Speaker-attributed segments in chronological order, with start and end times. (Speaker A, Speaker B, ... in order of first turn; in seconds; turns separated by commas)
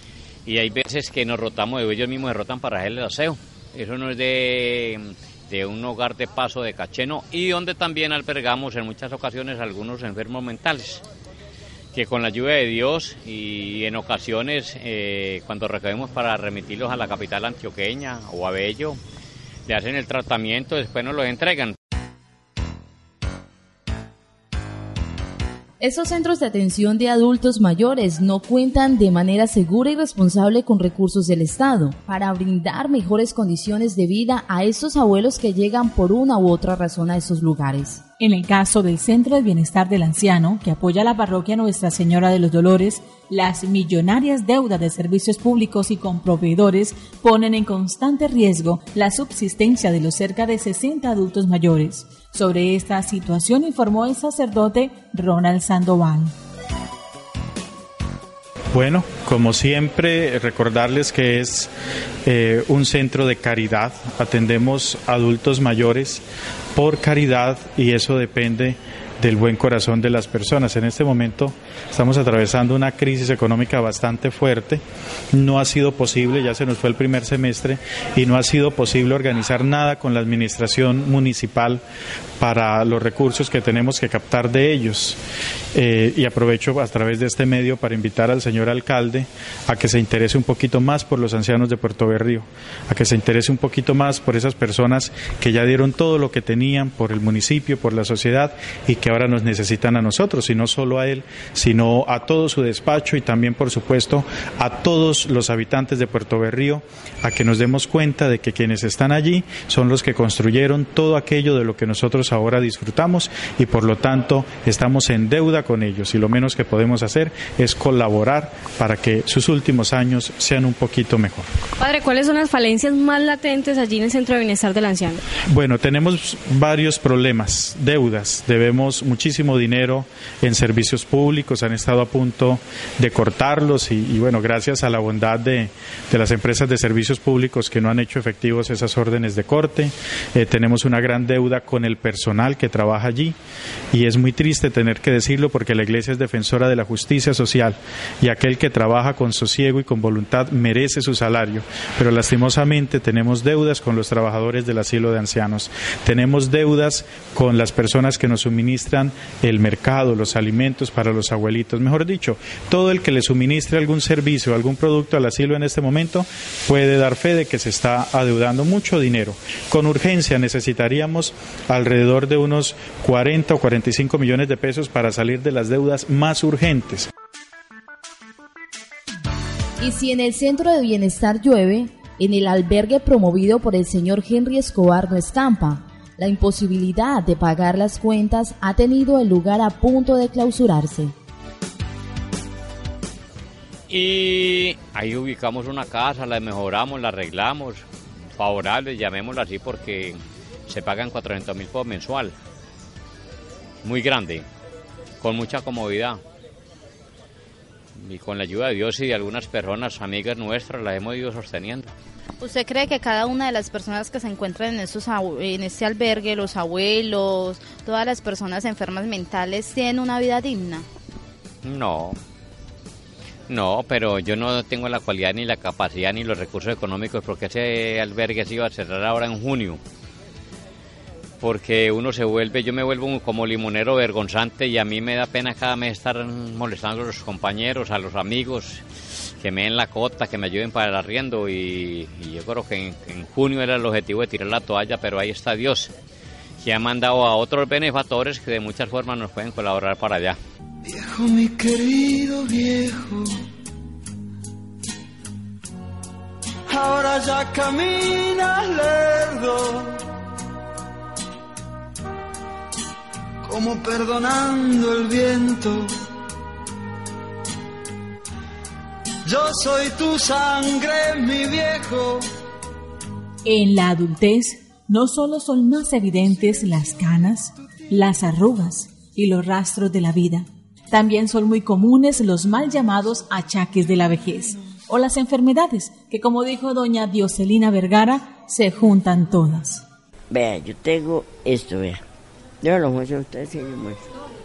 Speaker A: 0.5-11.0, Speaker A: 11.9-19.0, Speaker A: 19.7-21.8, Speaker B: 25.8-38.0, Speaker C: 38.2-56.3, Speaker D: 58.7-61.7, Speaker D: 62.2-66.2, Speaker D: 66.8-74.8, Speaker D: 75.3-81.8, Speaker D: 82.4-85.2, Speaker D: 85.8-121.5, Speaker E: 121.8-125.2, Speaker D: 125.5-143.4, Speaker D: 143.9-177.1, Speaker B: 179.8-191.1, Speaker A: 193.9-197.8, Speaker A: 198.4-202.3, Speaker A: 203.8-204.4, Speaker A: 205.2-206.2, Speaker A: 208.0-211.9, Speaker F: 212.4-220.9, Speaker A: 221.6-222.2, Speaker A: 223.5-229.8, Speaker A: 231.4-238.8, Speaker A: 239.4-245.9, Speaker A: 246.6-250.4, Speaker G: 250.8-253.3, Speaker G: 256.7-260.0, Speaker G: 263.4-265.9, Speaker G: 269.2-272.2, Speaker C: 273.4-289.8, Speaker H: 290.3-292.0, Speaker H: 292.6-294.0